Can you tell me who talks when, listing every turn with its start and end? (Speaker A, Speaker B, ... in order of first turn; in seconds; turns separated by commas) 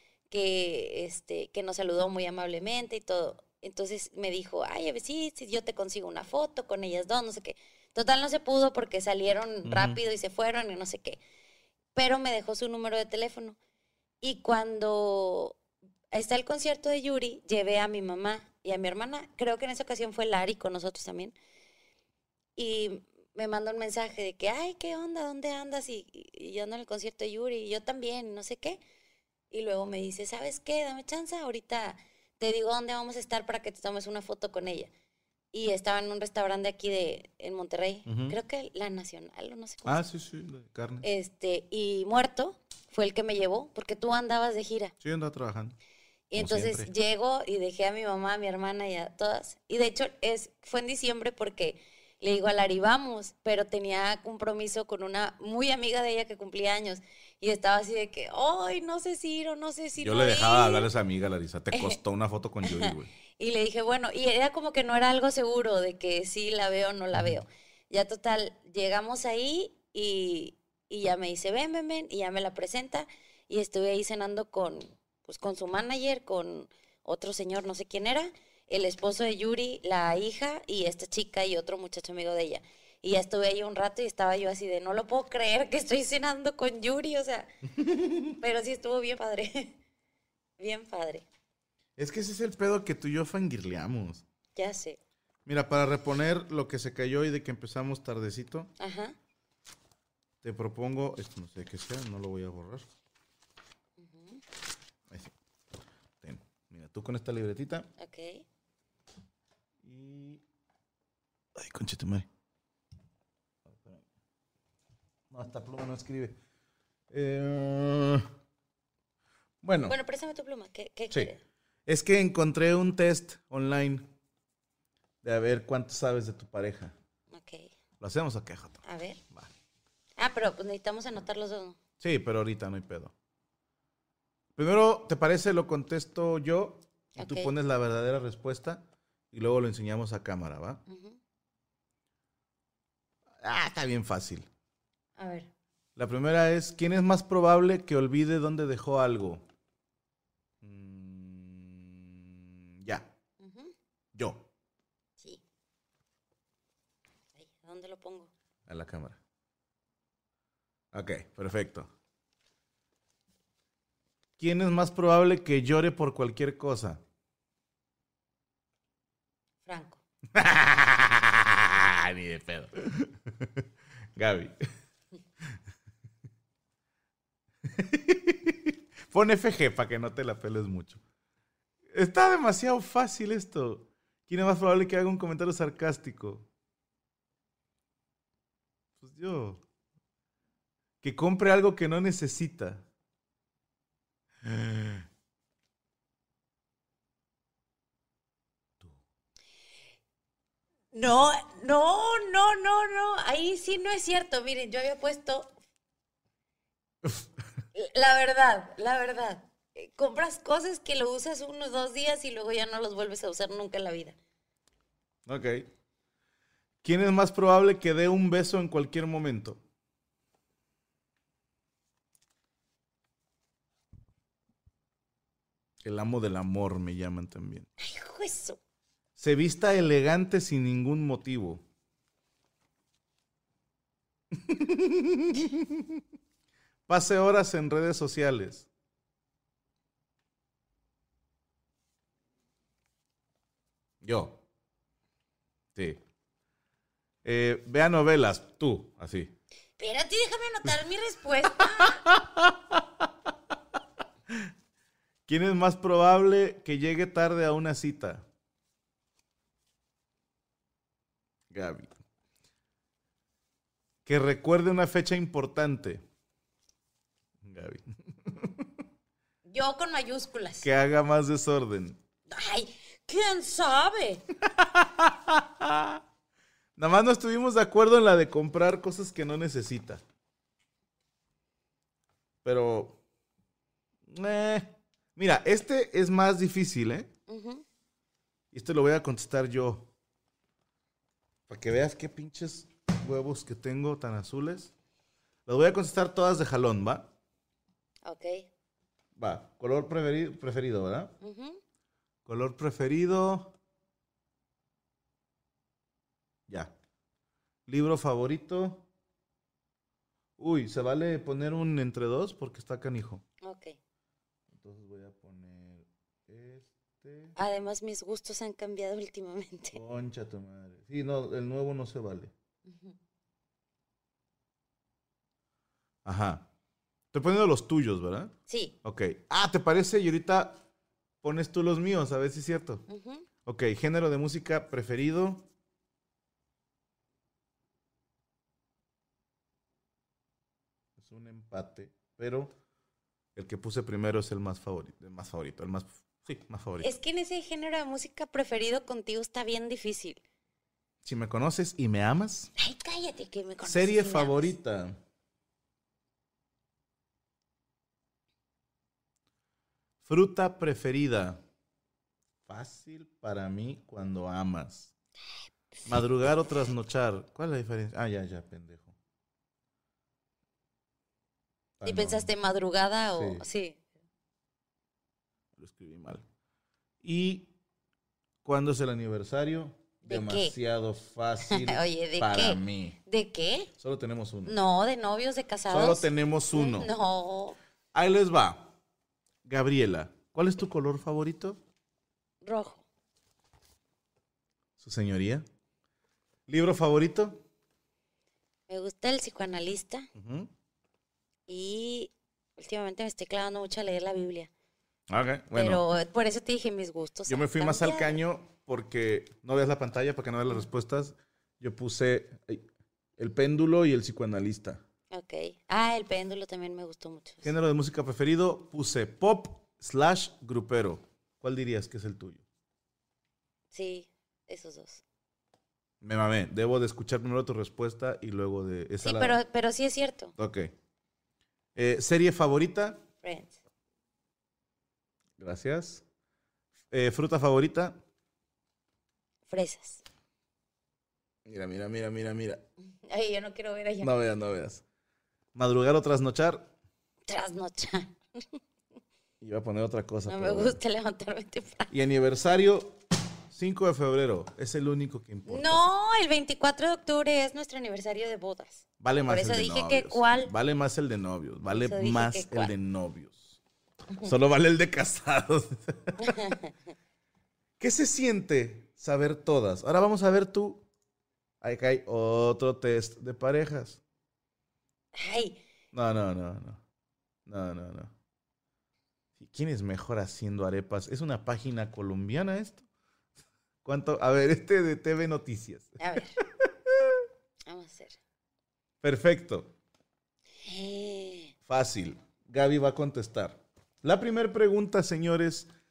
Speaker A: 0.3-11.2, Speaker B: 9.7-10.0, Speaker A: 11.9-13.6, Speaker A: 14.2-15.6, Speaker A: 16.1-21.4, Speaker A: 22.6-28.8, Speaker A: 29.5-34.9, Speaker A: 35.5-40.0, Speaker B: 38.1-38.4, Speaker B: 39.9-41.1, Speaker A: 41.0-44.9, Speaker B: 45.0-45.8, Speaker A: 46.3-60.9, Speaker B: 46.4-46.9, Speaker B: 60.0-63.1, Speaker A: 61.7-62.0, Speaker A: 62.6-87.5, Speaker B: 87.8-88.4, Speaker A: 88.4-89.8, Speaker A: 90.6-91.3, Speaker B: 92.0-94.2, Speaker A: 94.6-95.0, Speaker B: 95.5-98.7, Speaker A: 98.8-99.2, Speaker B: 100.4-102.9, Speaker A: 104.0-104.4, Speaker B: 106.2-107.9, Speaker A: 108.0-108.5, Speaker B: 109.8-110.4, Speaker B: 111.5-112.3, Speaker B: 113.7-114.0, Speaker B: 115.3-116.4, Speaker B: 117.1-118.3, Speaker B: 119.6-120.0, Speaker A: 119.9-121.4, Speaker B: 121.9-124.1, Speaker B: 125.2-127.0, Speaker A: 127.3-127.7, Speaker B: 128.0-129.5, Speaker A: 128.8-129.2, Speaker A: 130.2-131.8, Speaker B: 132.0-133.1, Speaker B: 134.6-140.8, Speaker A: 137.2-137.5, Speaker A: 140.9-141.2, Speaker B: 143.4-144.5, Speaker A: 145.2-145.5, Speaker B: 146.0-149.4, Speaker B: 150.6-153.1, Speaker A: 153.4-153.7, Speaker B: 154.2-154.5, Speaker A: 157.4-158.3, Speaker B: 158.7-159.2, Speaker B: 160.9-161.9, Speaker B: 164.4-167.0, Speaker A: 169.7-170.0, Speaker B: 170.3-173.7, Speaker B: 174.2-174.6, Speaker B: 177.7-181.0, Speaker B: 181.9-186.5, Speaker B: 189.0-189.6, Speaker B: 191.0-192.8, Speaker B: 194.4-195.1, Speaker A: 200.9-205.5, Speaker B: 207.0-207.3, Speaker A: 207.8-214.2, Speaker B: 215.3-215.7, Speaker B: 216.8-219.6, Speaker B: 225.8-227.7, Speaker A: 227.8-228.6, Speaker B: 229.2-231.6, Speaker B: 234.3-236.0, Speaker B: 236.9-238.7, Speaker B: 244.0-244.4, Speaker B: 245.8-246.0, Speaker B: 247.2-249.3, Speaker A: 249.8-252.1, Speaker B: 251.8-253.3, Speaker B: 255.3-258.3, Speaker B: 261.5-261.9, Speaker B: 264.1-266.0, Speaker B: 267.4-268.7, Speaker A: 269.4-270.7, Speaker B: 270.6-272.0, Speaker A: 272.3-274.2, Speaker B: 274.4-276.0, Speaker B: 276.8-280.0, Speaker B: 282.4-283.0, Speaker B: 284.1-287.1, Speaker A: 287.3-287.6, Speaker B: 288.5-289.9, Speaker B: 291.5-294.7, Speaker B: 295.5-297.1, Speaker A: 298.0-298.5, Speaker B: 299.2-301.1, Speaker A: 301.2-301.6, Speaker B: 302.3-303.5, Speaker B: 306.5-306.7, Speaker B: 307.7-308.9, Speaker B: 310.4-313.2, Speaker A: 313.4-313.8, Speaker B: 314.5-317.4, Speaker A: 317.4-319.8, Speaker B: 319.7-322.3, Speaker A: 322.7-322.9, Speaker B: 326.1-326.5, Speaker B: 327.1-330.6, Speaker A: 328.5-328.8, Speaker B: 331.2-332.8, Speaker A: 332.9-333.3, Speaker B: 333.5-335.5, Speaker B: 341.0-342.5, Speaker B: 343.4-346.9, Speaker A: 346.8-350.2, Speaker B: 351.0-352.5, Speaker A: 352.6-354.5, Speaker B: 353.6-355.0, Speaker B: 360.1-361.4, Speaker B: 362.5-364.9, Speaker B: 365.9-368.9, Speaker B: 371.8-372.3, Speaker A: 371.9-373.8, Speaker B: 373.1-373.4, Speaker B: 375.6-376.2, Speaker B: 377.0-377.5, Speaker B: 378.4-383.0, Speaker A: 380.1-380.6, Speaker A: 381.5-383.7, Speaker B: 383.8-384.6, Speaker A: 384.5-387.6, Speaker B: 385.7-386.9, Speaker B: 387.9-388.7, Speaker B: 389.4-391.6, Speaker A: 392.4-392.8, Speaker B: 394.8-395.4, Speaker B: 396.5-397.4, Speaker A: 398.7-400.1, Speaker B: 400.1-400.5, Speaker A: 401.5-404.5, Speaker B: 405.1-405.8, Speaker A: 405.5-408.2, Speaker B: 407.3-412.6, Speaker B: 413.2-414.8, Speaker A: 415.1-417.5, Speaker B: 417.4-422.4, Speaker A: 423.7-425.0, Speaker B: 426.0-429.4, Speaker A: 429.0-430.3, Speaker B: 430.4-430.7, Speaker B: 431.8-433.0, Speaker A: 433.2-433.6, Speaker B: 435.4-436.0, Speaker B: 436.9-438.0, Speaker A: 439.5-440.0, Speaker B: 441.5-442.7, Speaker A: 443.1-444.1, Speaker B: 444.0-444.8, Speaker B: 445.6-446.7, Speaker A: 447.3-448.6, Speaker B: 449.4-450.8, Speaker A: 450.3-451.9, Speaker B: 451.9-455.8, Speaker A: 455.5-460.5, Speaker B: 459.0-463.6, Speaker A: 461.7-462.7, Speaker B: 464.2-466.4, Speaker A: 466.2-466.7, Speaker B: 467.8-470.8, Speaker B: 471.6-474.0, Speaker A: 475.1-475.6, Speaker B: 475.9-476.8, Speaker B: 477.5-478.1, Speaker B: 479.4-482.8, Speaker B: 483.9-487.3, Speaker A: 486.0-486.4, Speaker A: 487.7-488.2, Speaker B: 489.0-489.7, Speaker A: 490.6-491.5, Speaker B: 491.7-495.7